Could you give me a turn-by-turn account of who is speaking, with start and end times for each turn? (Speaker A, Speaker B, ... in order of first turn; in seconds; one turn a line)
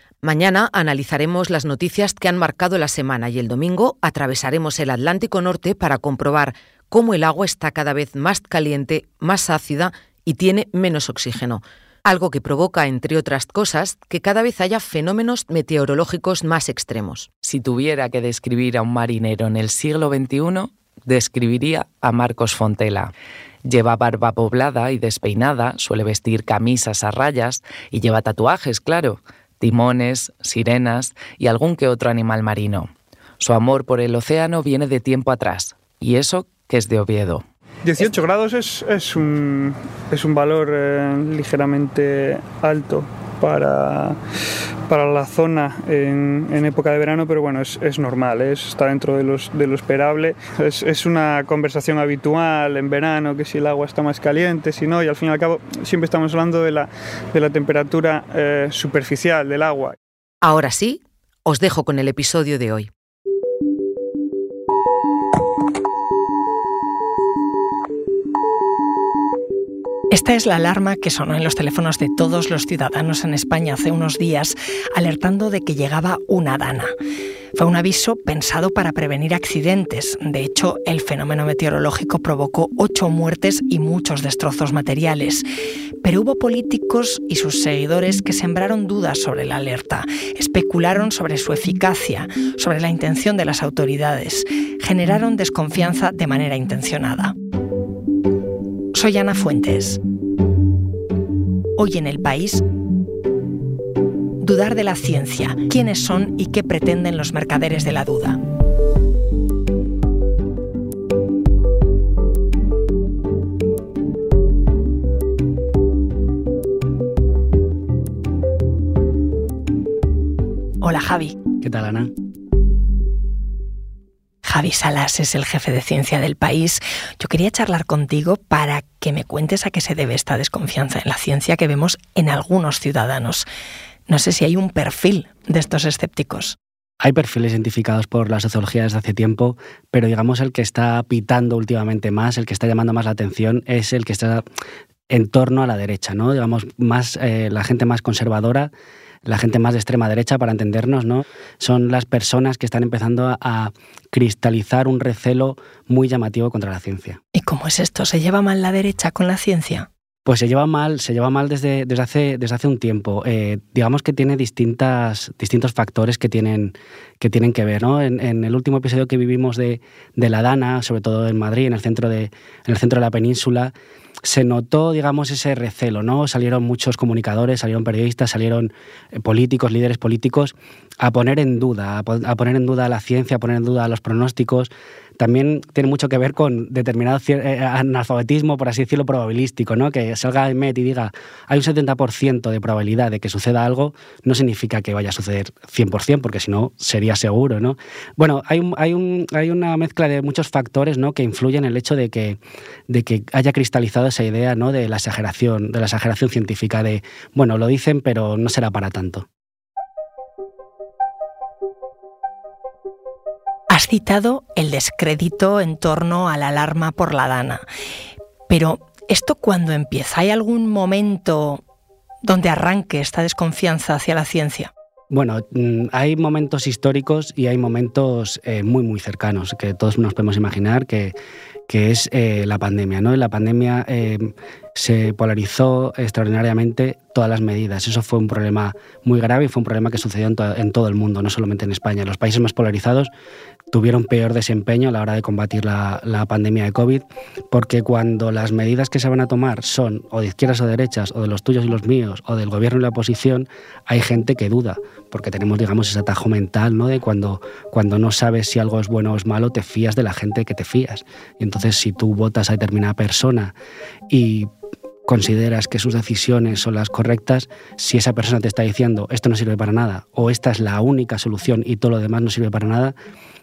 Speaker A: 0.2-17.3
Speaker B: 17.4-23.1
Speaker B: 23.6-37.4
Speaker C: 37.9-44.2
Speaker C: 44.9-60.0
Speaker A: 60.4-62.9
Speaker D: 70.1-76.9
Speaker D: 77.5-85.5
Speaker D: 86.0-97.3
Speaker D: 98.9-100.0
Speaker D: 101.8-102.6
Speaker D: 104.4-108.4
Speaker D: 120.8-121.4
Speaker E: 121.6-122.1
Speaker D: 124.4-133.5
Speaker D: 134.1-136.6
Speaker E: 137.0-144.4
Speaker E: 145.1-148.7
Speaker E: 149.3-157.2
Speaker D: 157.3-159.9
Speaker E: 160.2-209.3
Speaker D: 213.7-217.6
Speaker D: 218.5-221.6
Speaker D: 222.2-224.7
Speaker E: 225.1-231.2
Speaker E: 231.7-243.1
Speaker E: 243.7-263.6
Speaker E: 264.1-264.5
Speaker E: 265.1-272.9